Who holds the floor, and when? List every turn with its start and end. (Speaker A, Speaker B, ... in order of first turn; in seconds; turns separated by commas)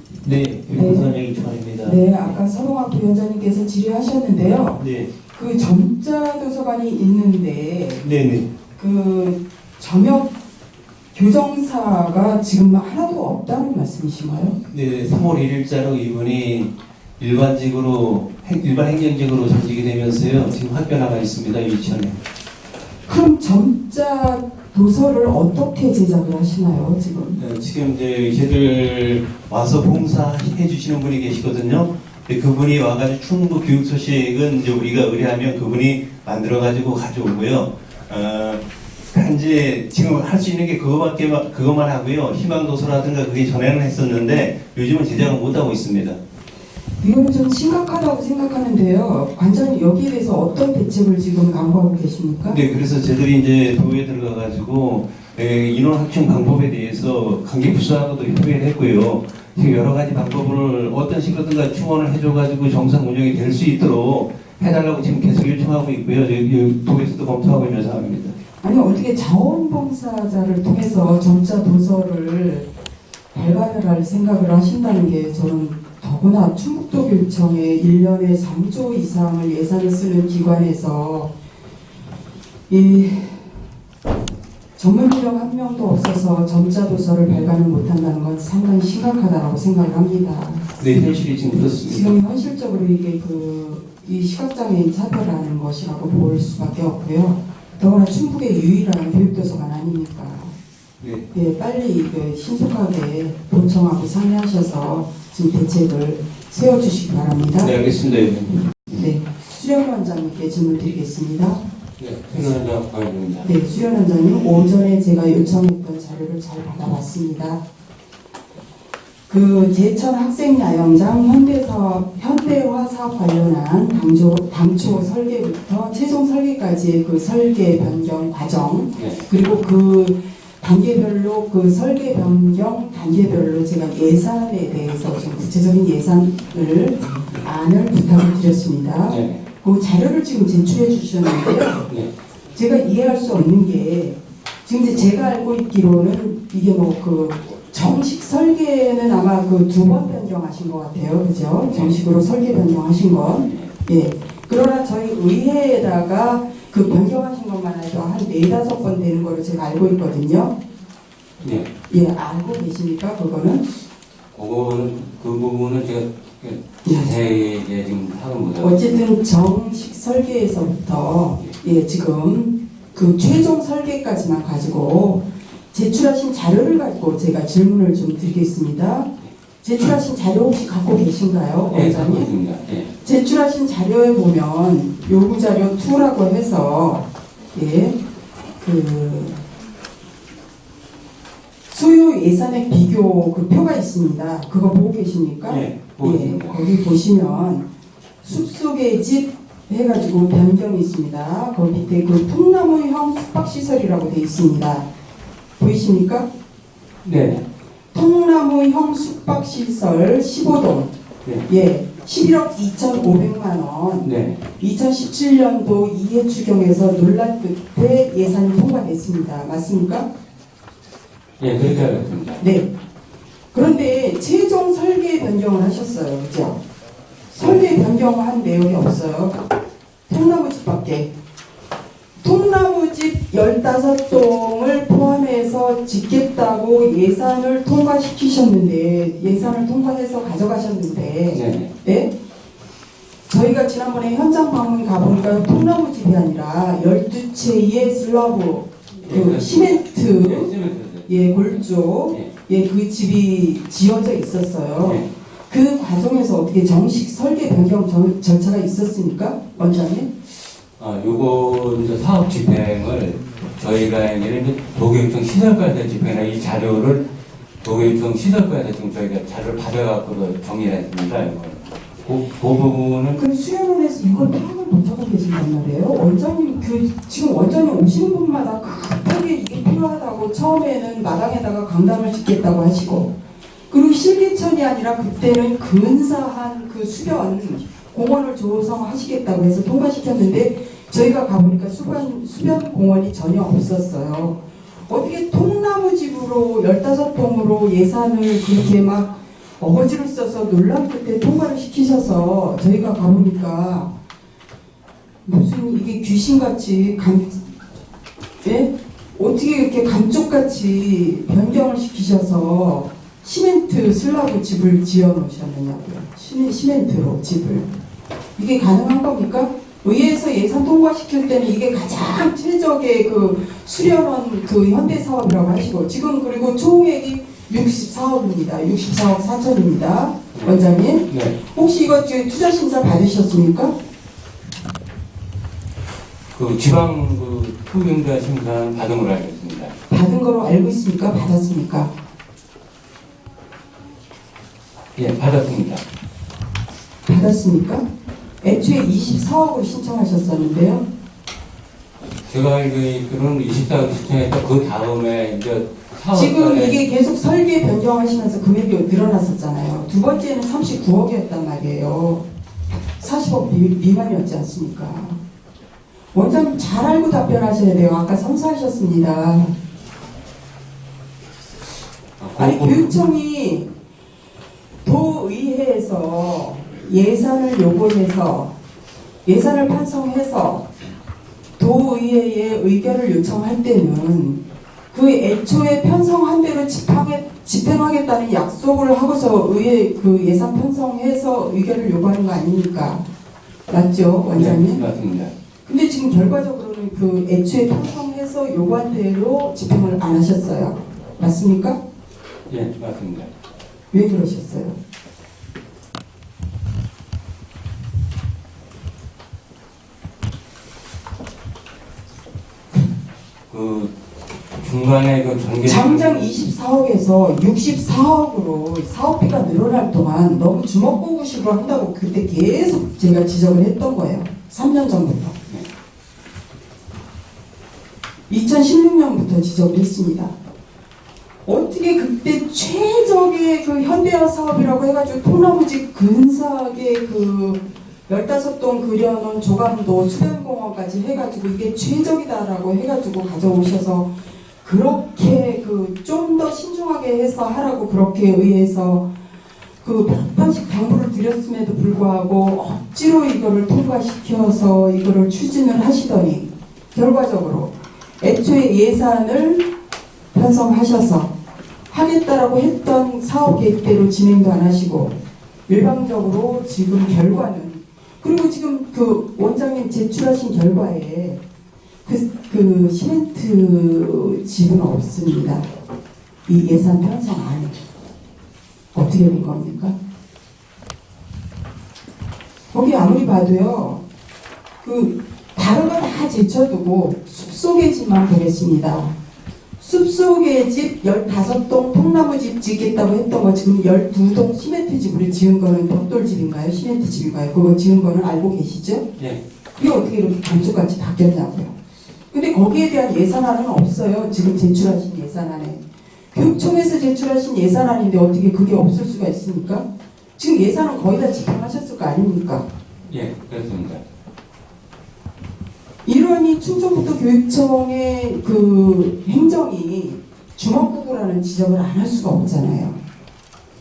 Speaker A: 0.2-2.0, Speaker B: 0.5-1.0, Speaker C: 0.7-1.1, Speaker C: 1.8-4.8, Speaker A: 4.8-5.1, Speaker C: 5.3-8.0, Speaker A: 8.0-8.4, Speaker C: 8.7-10.3, Speaker C: 11.1-14.6, Speaker A: 14.7-22.1, Speaker C: 23.1-27.4, Speaker A: 27.4-38.6, Speaker B: 28.5-29.4, Speaker A: 39.1-46.1, Speaker C: 47.0-52.6, Speaker A: 52.5-68.3, Speaker B: 52.7-53.6, Speaker B: 54.9-55.5, Speaker B: 57.0-57.2, Speaker C: 68.6-72.7, Speaker C: 73.3-81.3, Speaker C: 82.7-83.5, Speaker C: 84.8-90.7, Speaker A: 90.8-92.0, Speaker C: 91.5-100.5, Speaker A: 101.0-101.2, Speaker C: 101.3-107.8, Speaker B: 107.6-108.7, Speaker C: 108.9-111.6, Speaker B: 112.0-113.5, Speaker C: 113.4-117.6, Speaker C: 119.3-141.9, Speaker B: 129.0-129.2, Speaker B: 139.1-139.4, Speaker C: 142.5-160.6, Speaker B: 151.7-152.0, Speaker B: 153.4-153.7, Speaker B: 161.4-161.7, Speaker C: 161.9-163.7, Speaker B: 164.3-169.0, Speaker C: 166.8-167.1, Speaker C: 168.6-179.1, Speaker C: 179.6-182.3, Speaker B: 181.7-182.9, Speaker C: 183.0-188.0, Speaker C: 188.6-189.4, Speaker C: 191.7-197.7, Speaker B: 195.5-196.6, Speaker C: 198.2-204.9, Speaker C: 205.6-206.3, Speaker B: 207.0-207.4, Speaker C: 207.9-210.9, Speaker C: 211.5-220.1, Speaker B: 214.0-214.4, Speaker B: 221.4-222.4, Speaker C: 221.6-222.7, Speaker C: 223.5-226.6, Speaker C: 227.3-229.4, Speaker B: 227.3-227.6, Speaker C: 230.1-231.1, Speaker C: 232.2-242.1, Speaker B: 241.3-241.7, Speaker C: 243.3-250.5, Speaker B: 249.0-251.1, Speaker C: 251.1-260.1, Speaker B: 254.8-255.1, Speaker B: 260.8-267.0, Speaker B: 267.6-273.2, Speaker C: 273.1-283.1, Speaker C: 283.7-303.9, Speaker C: 305.2-307.4, Speaker C: 308.4-317.7, Speaker C: 318.4-333.7, Speaker B: 330.3-331.4, Speaker B: 336.3-339.7, Speaker C: 339.9-341.9, Speaker B: 344.9-345.8, Speaker C: 347.1-347.9, Speaker C: 348.4-350.9, Speaker B: 352.2-356.8, Speaker C: 356.1-365.2, Speaker C: 366.1-369.6, Speaker B: 372.2-372.9, Speaker C: 372.4-373.7, Speaker C: 374.8-378.5, Speaker C: 379.2-380.7, Speaker C: 381.6-393.0, Speaker C: 393.7-394.8, Speaker B: 394.3-395.3, Speaker C: 395.6-401.8, Speaker B: 402.5-403.3, Speaker C: 403.9-404.8, Speaker B: 413.5-413.9, Speaker B: 414.5-416.3, Speaker C: 415.6-425.4, Speaker C: 428.3-430.4, Speaker C: 431.4-444.1, Speaker C: 444.6-449.1, Speaker C: 449.8-459.6, Speaker C: 460.3-461.3, Speaker C: 461.9-465.1, Speaker C: 465.7-471.4, Speaker C: 472.0-475.7, Speaker C: 476.5-477.8, Speaker C: 478.9-480.0, Speaker C: 482.7-484.0, Speaker C: 484.8-489.1, Speaker C: 489.8-499.1, Speaker C: 499.8-501.7, Speaker C: 502.3-505.8, Speaker C: 506.3-509.8, Speaker C: 510.4-512.6, Speaker B: 513.1-514.0, Speaker C: 516.0-523.0